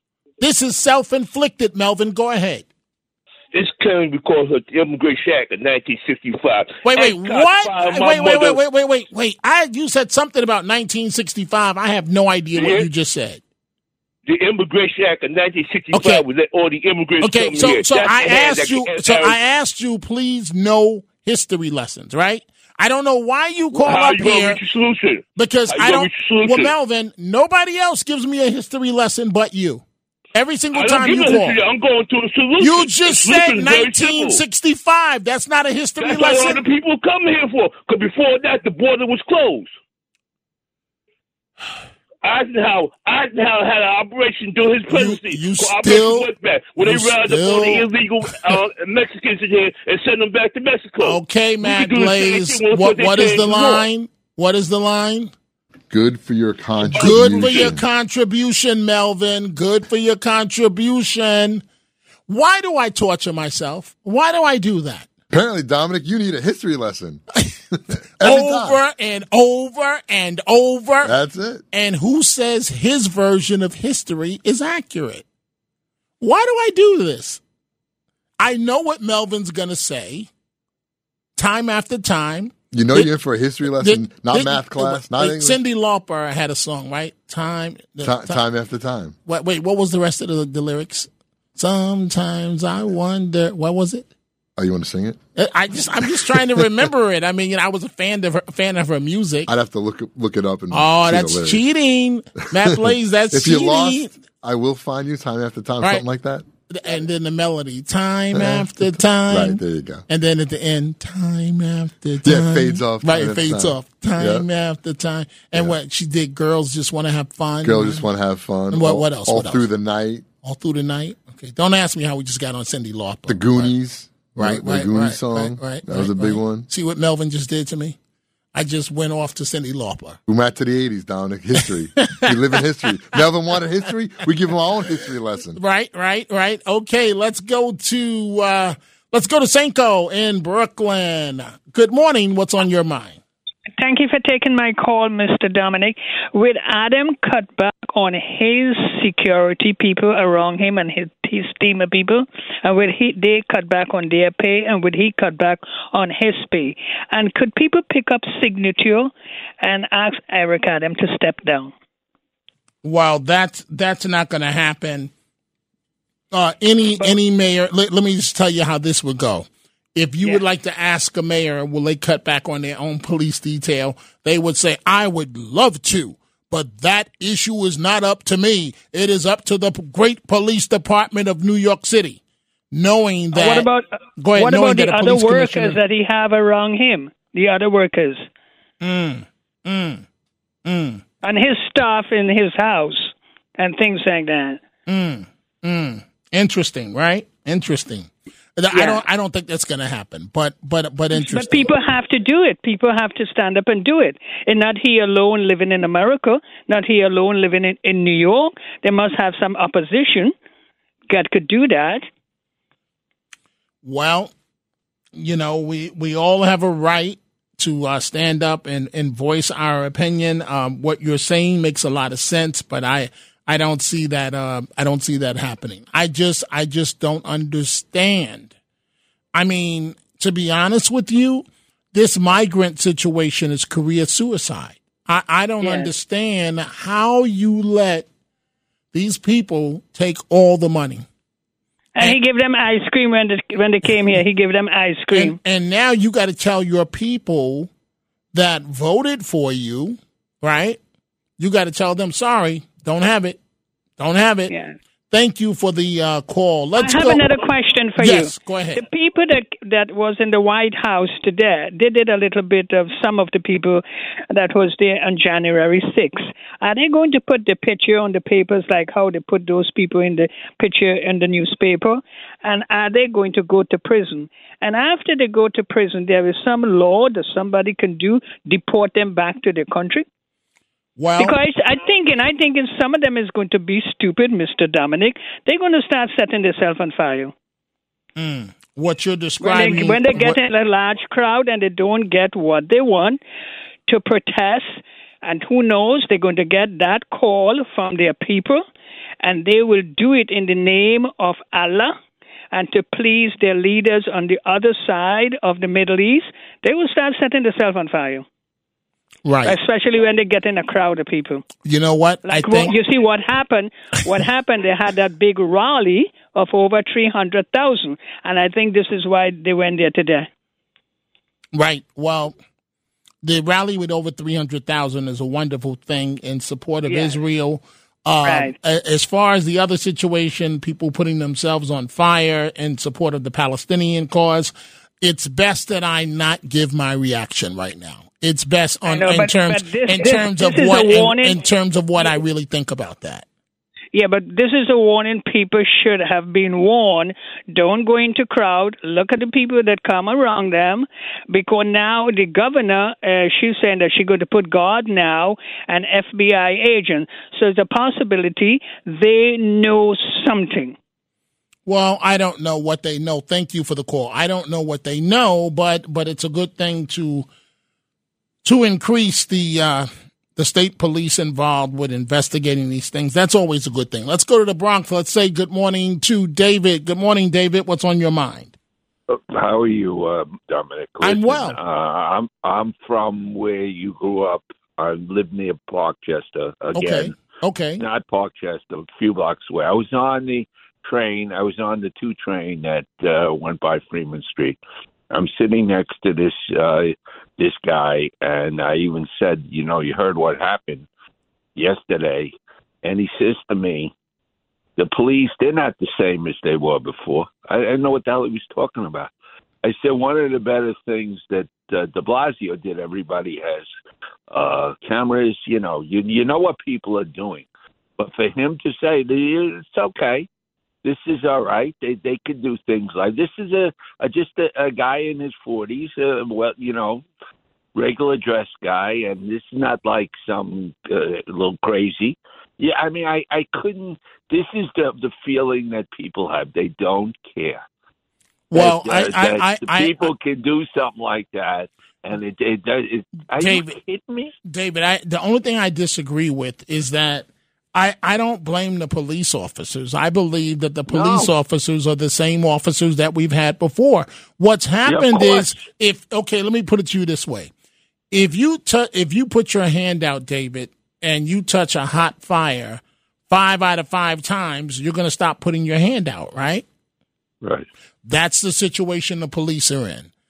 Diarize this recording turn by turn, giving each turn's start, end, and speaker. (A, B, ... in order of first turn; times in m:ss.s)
0:00.4-0:02.7 A
0:03.5-0:08.6 B
0:06.8-0:13.4 A
0:12.5-0:12.9 B
0:14.3-0:19.4 B
0:15.9-0:16.2 A
0:17.2-0:24.6 A
0:23.7-0:26.7 B
0:25.4-0:29.8 A
0:30.3-0:31.6 A
0:30.7-0:34.4 B
0:32.6-0:36.6 A
0:36.0-0:39.7 B
0:42.2-0:53.9 B
0:44.8-0:47.9 A
0:51.0-0:55.3 A
0:55.9-0:57.8 C
0:56.8-1:01.6 A
1:02.3-1:05.1 A
1:05.3-1:07.2 C
1:08.2-1:08.8 C
1:08.2-1:11.2 A
1:11.0-1:11.6 C
1:11.7-1:15.2 A
1:16.2-1:17.4 A
1:18.4-1:20.3 A
1:21.4-1:23.1 A
1:22.7-1:25.6 C
1:23.7-1:28.4 A
1:28.0-1:29.1 C
1:29.2-1:34.1 A
1:34.6-1:35.2 C
1:35.4-1:39.5 A
1:36.0-1:36.7 C
1:39.5-1:41.6 C
1:40.7-1:44.1 A
1:42.5-1:46.4 C
1:46.7-1:58.1 A
1:48.3-1:50.0 C
1:52.2-1:54.4 C
1:57.6-2:00.2 C
1:58.7-1:59.7 A
2:00.4-2:03.7 A
2:03.3-2:06.6 C
2:04.4-2:08.0 A
2:08.5-2:10.2 A
2:10.3-2:15.6 C
2:11.6-2:13.3 A
2:15.6-2:23.2 A
2:23.8-2:41.7 D
2:42.8-2:45.1 A
2:46.3-3:05.8 A
3:03.3-3:08.2 D
3:08.8-3:10.0 A
3:10.6-3:11.0 A
3:11.2-3:14.6 D
3:14.8-3:21.7 A
3:18.7-3:19.0 D
3:21.1-3:30.3 D
3:31.1-3:32.0 D
3:33.8-3:34.3 A
3:35.1-3:48.5 A
3:49.3-3:58.1 A
3:55.6-3:55.9 D
3:58.9-4:01.0 A
4:01.9-4:05.4 D
4:05.1-4:07.7 A
4:08.3-4:10.8 A
4:11.4-4:13.4 A
4:14.0-4:14.5 A
4:14.5-4:14.7 D
4:15.1-4:17.2 A
4:16.7-4:40.0 D
4:18.0-4:18.8 A
4:41.0-4:41.4 A
4:41.2-4:47.3 D
4:48.2-4:50.4 A
4:49.4-4:53.2 D
4:53.9-4:58.6 D
4:59.2-5:01.9 D
5:02.5-5:08.2 D
5:09.2-5:09.5 A
5:09.4-5:11.4 D
5:11.6-5:12.7 A
5:12.2-5:20.3 D
5:21.5-5:22.4 A
5:23.2-5:43.2 A
5:26.8-5:27.2 D
5:28.2-5:28.5 D
5:38.8-5:41.4 D
5:43.9-6:00.8 D
6:01.6-6:07.3 A
6:08.4-6:18.5 A
6:19.1-6:27.2 E
6:21.0-6:21.6 A
6:26.7-6:27.8 A
6:27.8-6:34.6 E
6:35.1-6:40.9 E
6:41.6-6:43.9 E
6:44.8-6:49.1 E
6:49.6-6:53.7 E
6:54.3-6:57.5 E
6:58.0-7:00.3 E
7:00.8-7:07.0 E
7:07.7-7:17.6 E
7:18.5-7:20.1 A
7:18.5-7:24.3 E
7:23.4-7:23.8 A
7:24.4-7:37.5 A
7:30.9-7:31.3 E
7:34.8-7:35.6 E
7:38.1-7:46.6 A
7:47.4-7:47.7 E
7:48.0-7:50.1 A